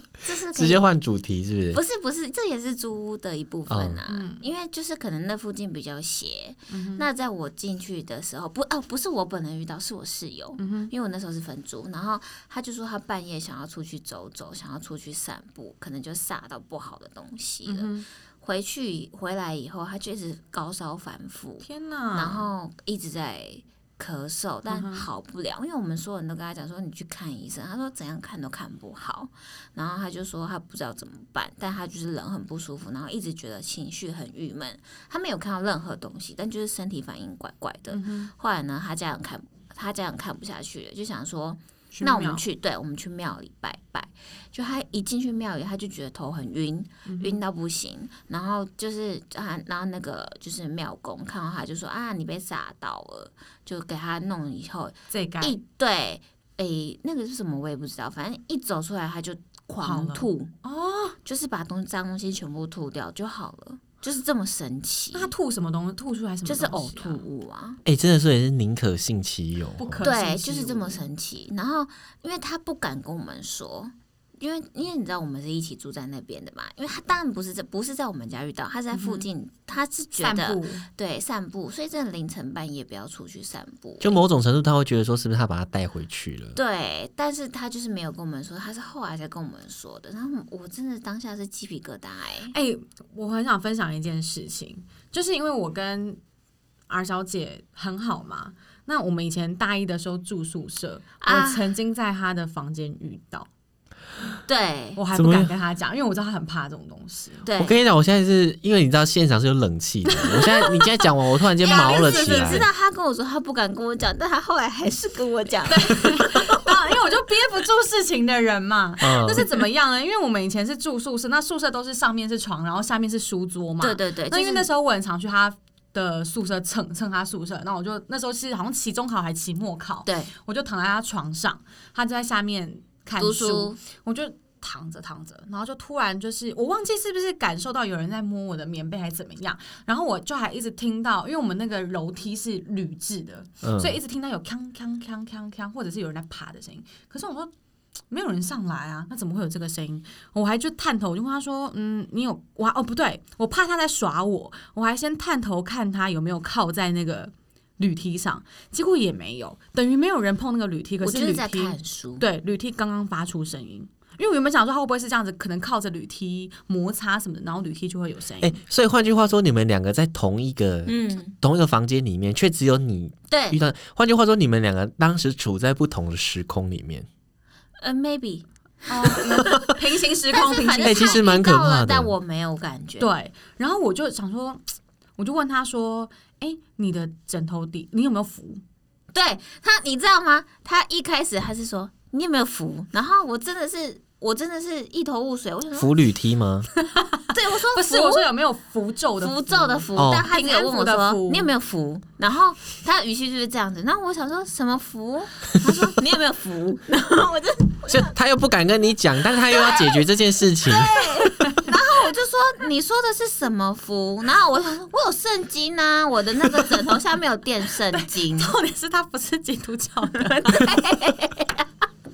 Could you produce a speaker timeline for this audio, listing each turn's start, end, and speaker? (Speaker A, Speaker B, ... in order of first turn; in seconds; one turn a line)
Speaker A: 0.2-0.8
Speaker B: 0.5-1.8
Speaker A: 1.7-60.5
Speaker B: 3.7-4.0
Speaker C: 4.1-4.4
Speaker C: 6.7-7.0
Speaker C: 10.6-10.9
Speaker C: 17.6-18.1
Speaker C: 21.6-22.5
Speaker C: 24.7-25.1
Speaker C: 37.9-38.3
Speaker C: 41.9-42.4
Speaker C: 47.0-47.4
Speaker C: 55.1-55.6
Speaker C: 59.8-61.2
Speaker A: 61.2-65.3
Speaker C: 65.1-67.2
Speaker A: 66.4-67.8
Speaker B: 67.8-70.1
Speaker C: 69.8-71.0
Speaker A: 70.0-84.2
Speaker C: 78.9-79.3
Speaker C: 80.2-80.8
Speaker B: 84.0-86.5
Speaker A: 86.5-92.5
Speaker C: 92.5-96.2
Speaker C: 96.9-103.5
Speaker A: 101.2-101.7
Speaker A: 104.5-105.0
Speaker C: 105.0-107.5
Speaker B: 105.1-105.5
Speaker A: 107.4-107.8
Speaker B: 107.6-112.7
Speaker C: 110.0-111.0
Speaker C: 111.6-112.7
Speaker A: 111.6-116.7
Speaker C: 115.7-147.5
Speaker B: 119.0-119.5
Speaker A: 123.8-124.7
Speaker A: 130.0-130.3
Speaker A: 133.2-133.8
Speaker B: 143.6-144.0
Speaker C: 148.1-168.6
Speaker A: 161.0-162.3
Speaker B: 168.4-177.1
Speaker A: 170.8-171.3
Speaker A: 173.3-173.6
Speaker A: 177.8-179.7
Speaker C: 178.9-181.2
Speaker B: 179.3-179.7
Speaker A: 180.3-183.1
Speaker B: 180.8-182.1
Speaker C: 183.0-184.6
Speaker C: 185.2-188.6
Speaker A: 189.1-195.9
Speaker B: 195.8-196.7
Speaker C: 196.8-201.5
Speaker A: 197.3-198.3
Speaker A: 199.2-208.1
Speaker B: 199.9-200.3
Speaker B: 207.9-211.1
Speaker A: 209.5-210.0
Speaker A: 210.6-218.5
Speaker C: 217.9-220.8
Speaker A: 220.2-221.7